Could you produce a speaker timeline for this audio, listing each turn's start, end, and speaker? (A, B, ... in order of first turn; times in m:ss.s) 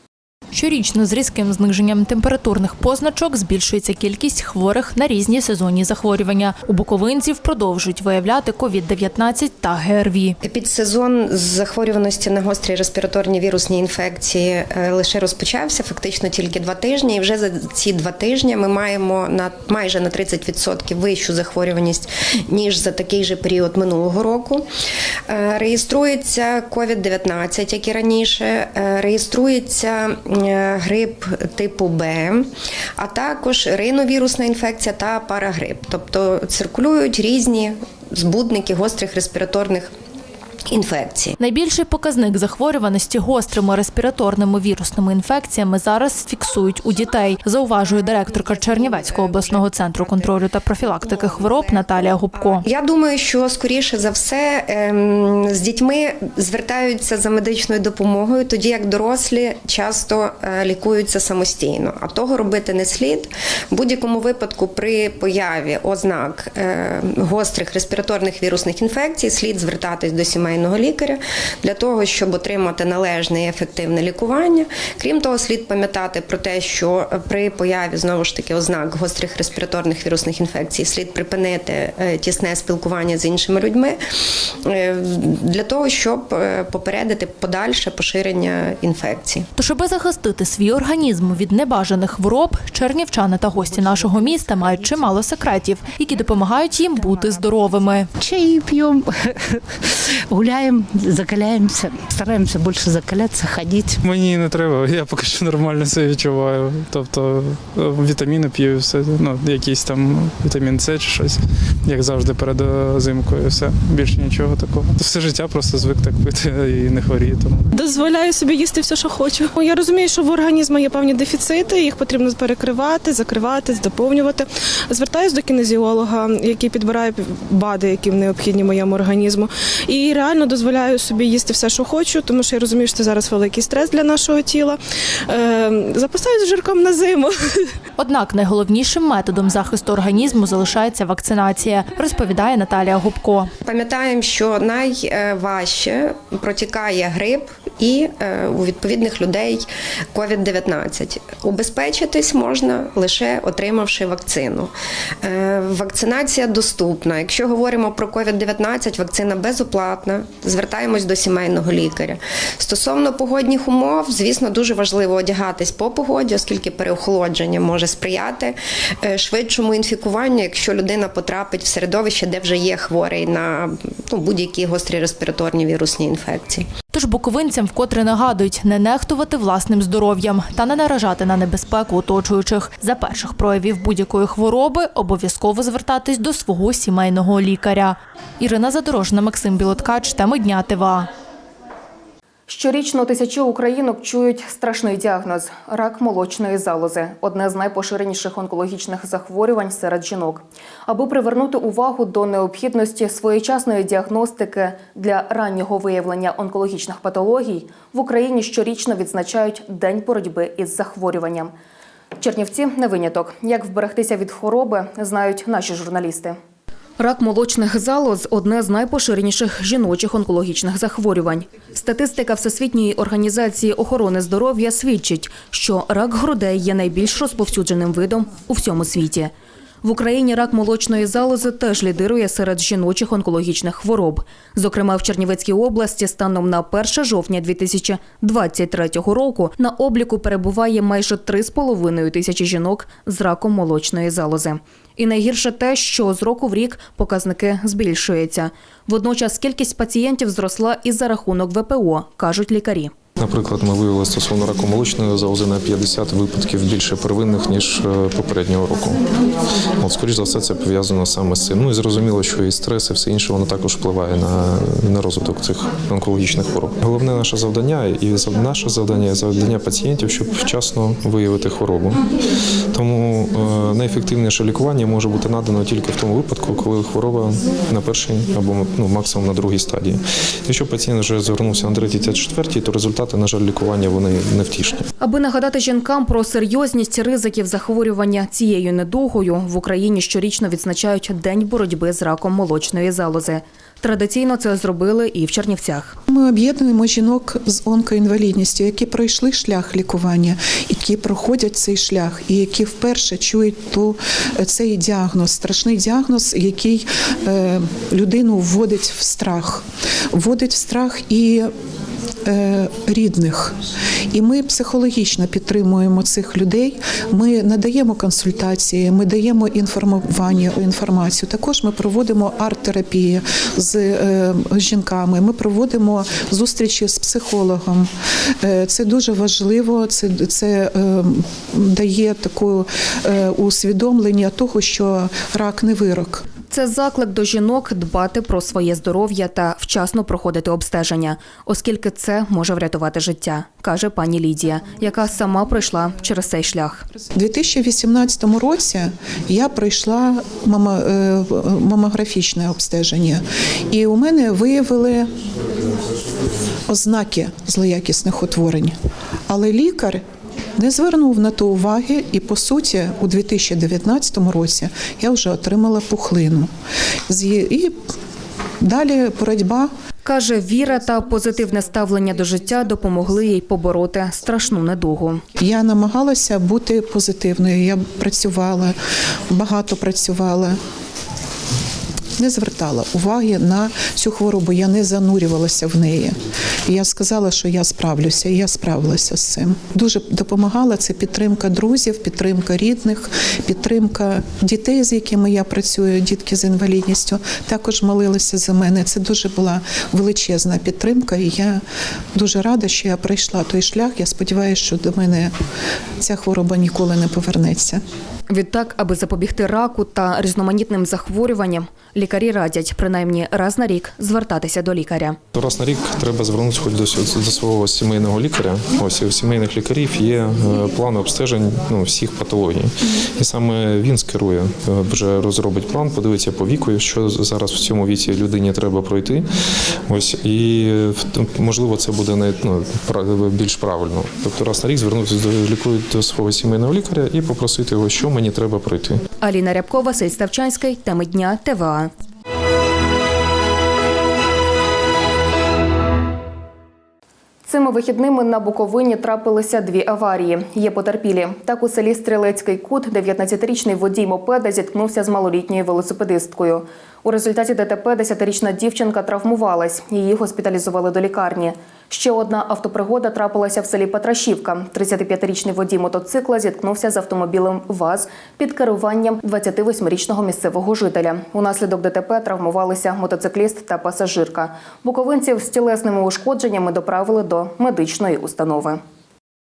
0:00.5-0:10.4 A
0:10.4-0:24.6 B
0:25.3-0:32.5 B
0:33.0-0:39.9 B
0:40.7-0:41.4 B
0:41.4-0:52.7 A
0:48.3-1:24.0 B
1:24.6-1:29.4 B
1:29.6-1:38.1 A
1:38.2-1:39.0 C
1:40.3-1:43.9 C
1:44.0-1:57.6 D
1:57.7-2:14.8 E
2:15.3-2:17.5 E
2:18.0-2:23.5 A
2:23.6-2:34.7 B
2:35.2-2:56.7 B
2:56.9-3:11.1 A
3:12.5-3:31.5 F
3:32.2-3:36.4 F
3:37.0-3:49.3 F
3:49.8-4:12.9 F
4:13.2-4:19.0 G
4:19.8-4:32.0 G
4:32.7-4:44.8 G
4:45.0-4:56.0 F
4:56.1-5:11.5 H
5:12.2-5:13.6 H
5:14.1-5:27.9 H
5:28.4-5:36.2 H
5:36.5-5:46.8 F
5:47.1-5:55.1 H
5:56.7-5:58.7 H
5:59.3-6:00.0 H
6:00.6-6:06.5 H
6:07.1-6:07.7 H
6:08.6-6:09.7 H
6:10.0-6:15.2 F
6:15.4-6:18.8 H
6:19.3-6:20.6 H
6:22.2-6:41.6 H
6:42.1-6:45.3 H
6:46.0-6:47.8 H
6:48.3-6:55.2 F
6:55.3-7:09.3 G
7:09.9-7:19.0 G
7:19.2-7:21.9 F
7:27.4-7:58.8 F